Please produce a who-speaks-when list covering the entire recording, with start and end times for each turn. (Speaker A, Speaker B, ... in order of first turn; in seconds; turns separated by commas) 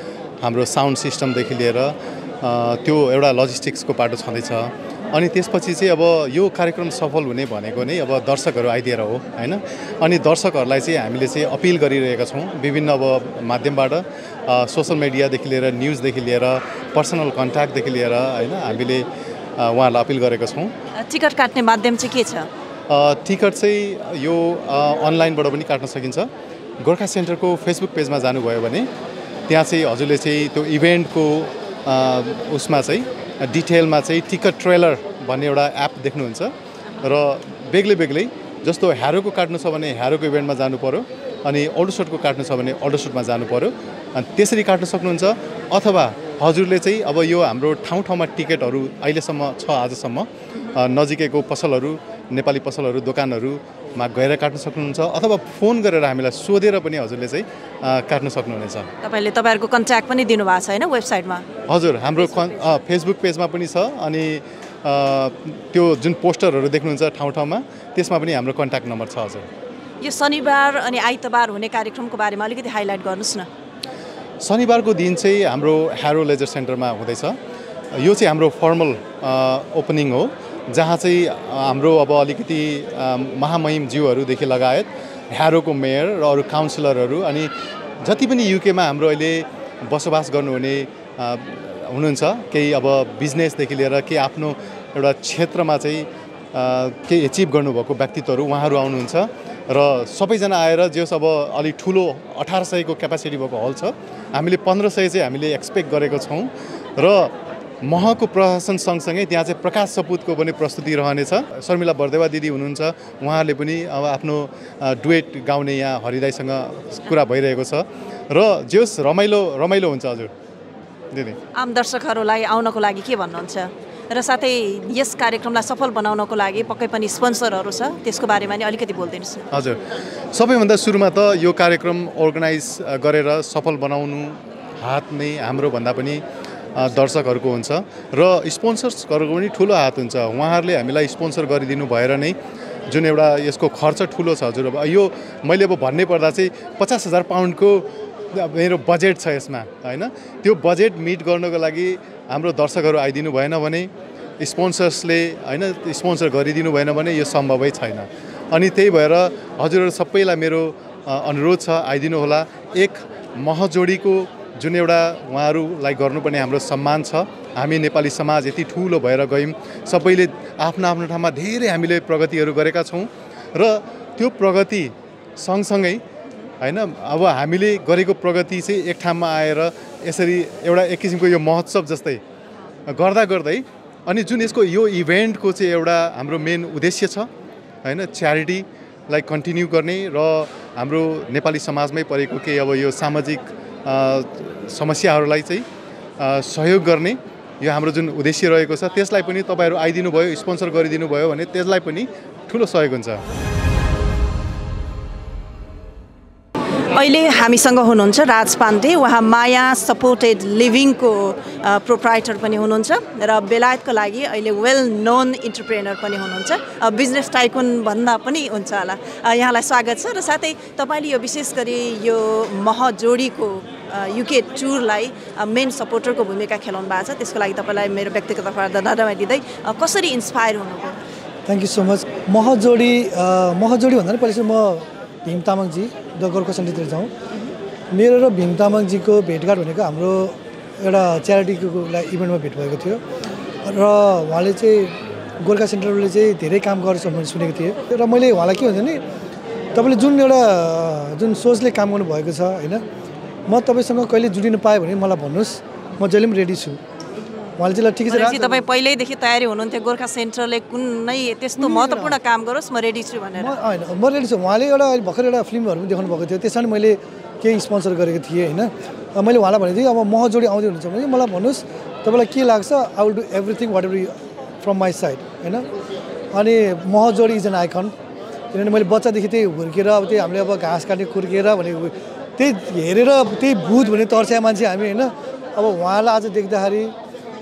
Speaker A: 0.4-20.7, Speaker B: 21.0-22.5, Speaker A: 22.9-26.3, Speaker A: 26.8-28.9, Speaker A: 29.5-36.5, Speaker A: 37.0-58.9, Speaker B: 59.0-61.4, Speaker A: 61.7-69.5, Speaker B: 70.0-73.5, Speaker A: 74.4-77.4, Speaker A: 77.9-87.5, Speaker A: 88.0-120.3, Speaker A: 121.1-121.4, Speaker B: 121.5-129.5, Speaker A: 129.5-136.2, Speaker A: 136.7-142.4, Speaker A: 142.9-176.0, Speaker A: 176.6-182.2, Speaker A: 182.9-187.3, Speaker A: 187.8-195.7, Speaker A: 196.2-203.2, Speaker B: 206.9-231.0, Speaker C: 231.4-237.1, Speaker C: 237.9-243.0, Speaker C: 243.6-249.0, Speaker C: 249.7-252.8, Speaker C: 253.5-256.8, Speaker C: 257.6-258.6, Speaker B: 258.1-263.5, Speaker C: 261.6-262.2, Speaker C: 263.4-275.7, Speaker C: 276.3-277.9, Speaker C: 278.5-286.9